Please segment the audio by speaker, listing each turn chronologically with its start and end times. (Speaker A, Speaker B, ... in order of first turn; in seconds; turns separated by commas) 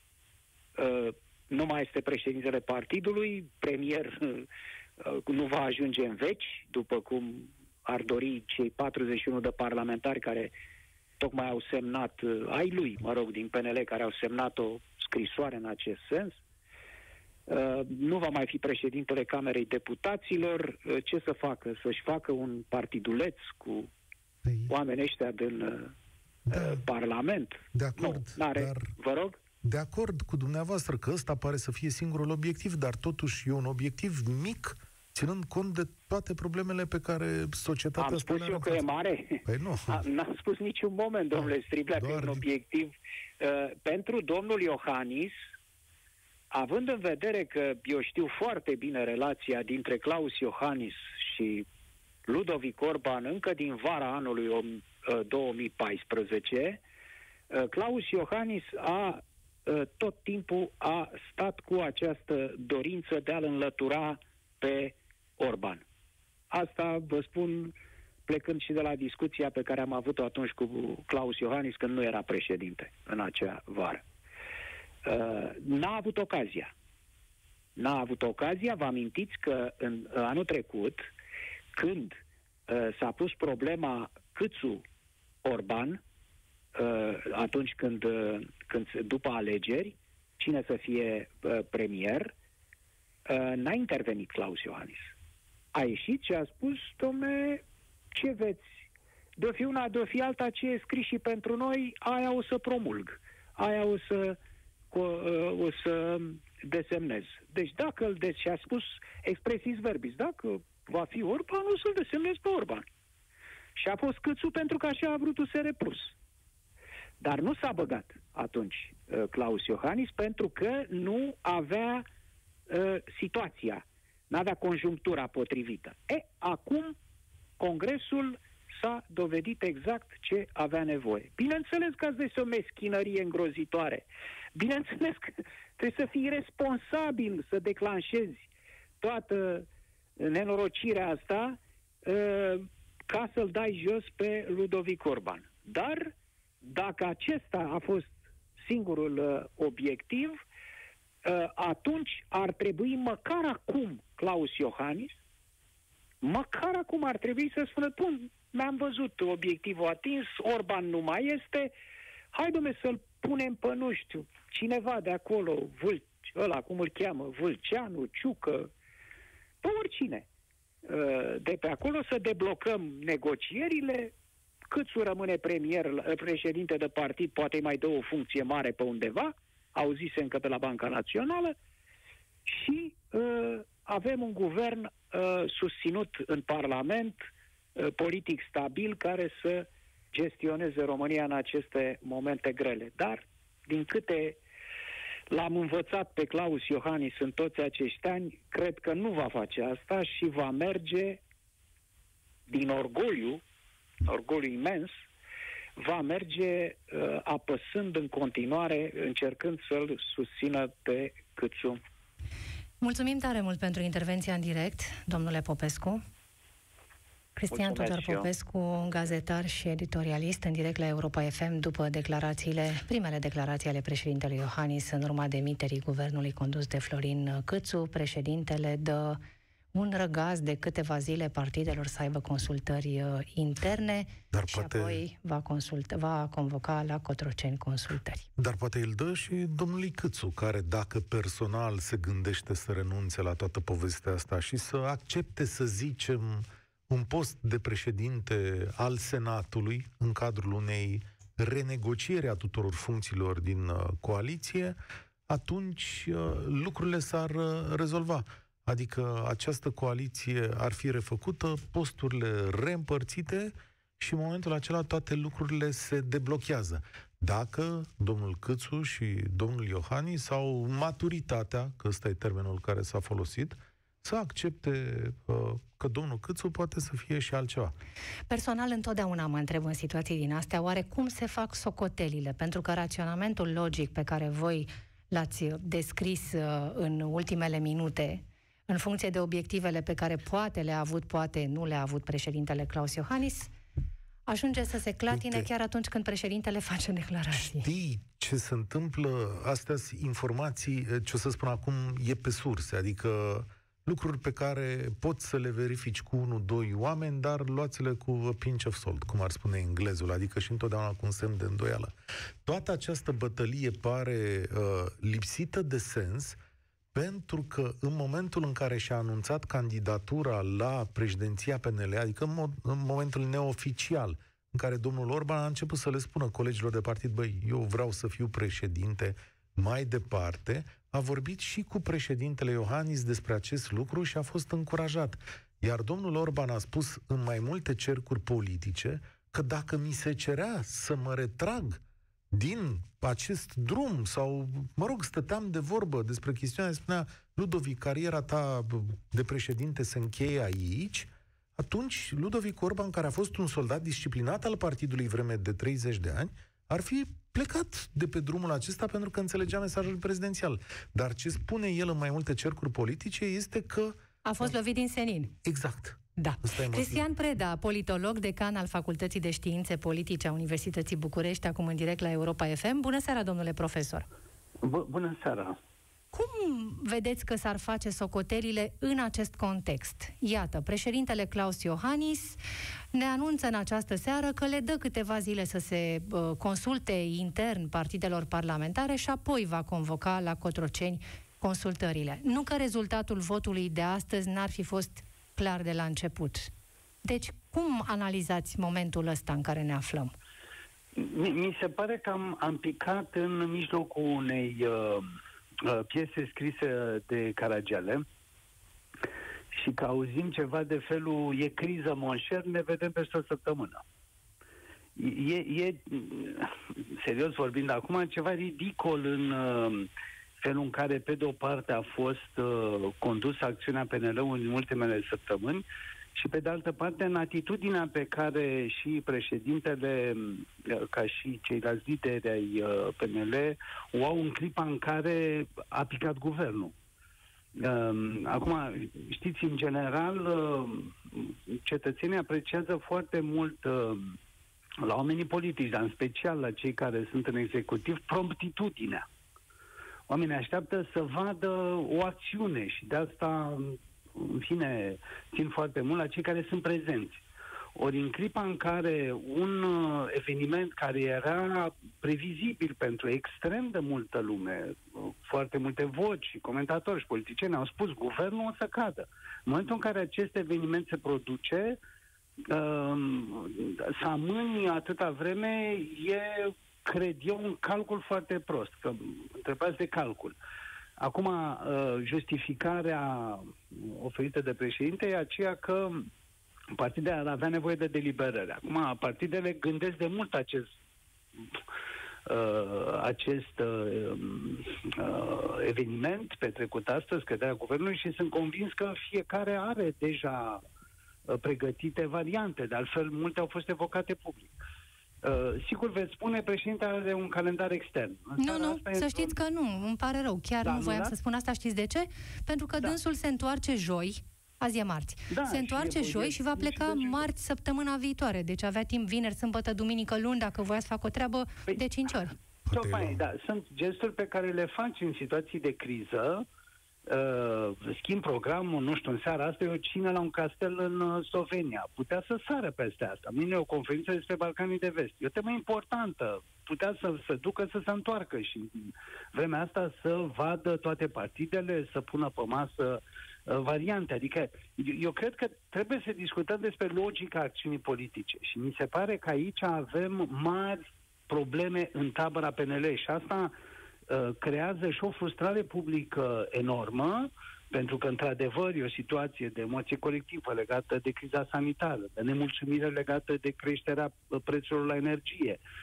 Speaker A: 0.8-4.5, Speaker A: 5.0-10.5, Speaker A: 11.2-16.4, Speaker A: 17.5-23.9, Speaker B: 24.4-24.7, Speaker A: 24.7-25.9, Speaker B: 26.5-26.8, Speaker A: 26.5-29.4, Speaker B: 27.7-28.9, Speaker B: 29.6-38.8, Speaker A: 38.0-45.4, Speaker B: 39.4-40.0, Speaker B: 41.4-42.4, Speaker A: 46.5-51.7, Speaker A: 52.3-56.8, Speaker A: 57.5-65.8, Speaker A: 66.5-67.7, Speaker A: 68.3-74.0, Speaker A: 75.0-76.7, Speaker A: 77.8-81.1, Speaker A: 81.7-82.2, Speaker A: 82.7-84.8, Speaker A: 85.4-86.0, Speaker A: 86.8-92.3, Speaker A: 93.3-95.1, Speaker A: 95.7-97.6, Speaker A: 98.2-98.7, Speaker A: 99.4-104.4, Speaker A: 104.9-112.8, Speaker A: 113.8-116.2, Speaker A: 117.2-122.0, Speaker A: 122.7-127.0, Speaker A: 127.6-138.5, Speaker A: 139.0-139.7, Speaker A: 140.2-150.4, Speaker A: 151.2-155.2, Speaker A: 156.2-161.7, Speaker A: 162.3-168.7, Speaker A: 169.6-170.3, Speaker A: 170.8-174.1, Speaker A: 174.7-181.6, Speaker A: 182.5-187.2, Speaker A: 187.8-194.4, Speaker A: 195.3-201.2, Speaker A: 202.5-203.4, Speaker A: 204.0-205.0, Speaker A: 205.8-211.8, Speaker C: 212.8-216.0, Speaker C: 217.4-229.2, Speaker A: 217.5-218.3, Speaker C: 229.7-238.3, Speaker B: 234.3-235.0, Speaker B: 238.4-254.8, Speaker B: 255.3-277.8, Speaker C: 278.3-293.5, Speaker C: 294.3-297.7, Speaker B: 295.1-295.5, Speaker B: 297.3-311.9, Speaker B: 312.4-316.4, Speaker B: 316.9-364.5, Speaker C: 364.2-365.3, Speaker B: 365.4-367.1, Speaker C: 366.2-374.1, Speaker D: 374.6-375.6, Speaker C: 376.1-382.4, Speaker C: 382.9-396.5, Speaker C: 397.0-400.1, Speaker D: 401.0-408.0, Speaker D: 409.5-413.8, Speaker D: 415.0-419.9, Speaker D: 420.4-436.7, Speaker D: 437.6-444.2, Speaker D: 444.8-449.1, Speaker D: 450.1-457.2, Speaker D: 457.8-471.8, Speaker D: 472.5-480.4, Speaker D: 481.0-486.1, Speaker D: 486.7-490.7, Speaker D: 492.3-500.6, Speaker D: 501.3-504.5, Speaker D: 505.2-509.4, Speaker C: 508.4-522.4, Speaker D: 510.6-511.1, Speaker D: 515.3-517.3, Speaker B: 522.7-523.2, Speaker D: 522.7-526.5, Speaker D: 527.1-553.5, Speaker D: 554.1-565.6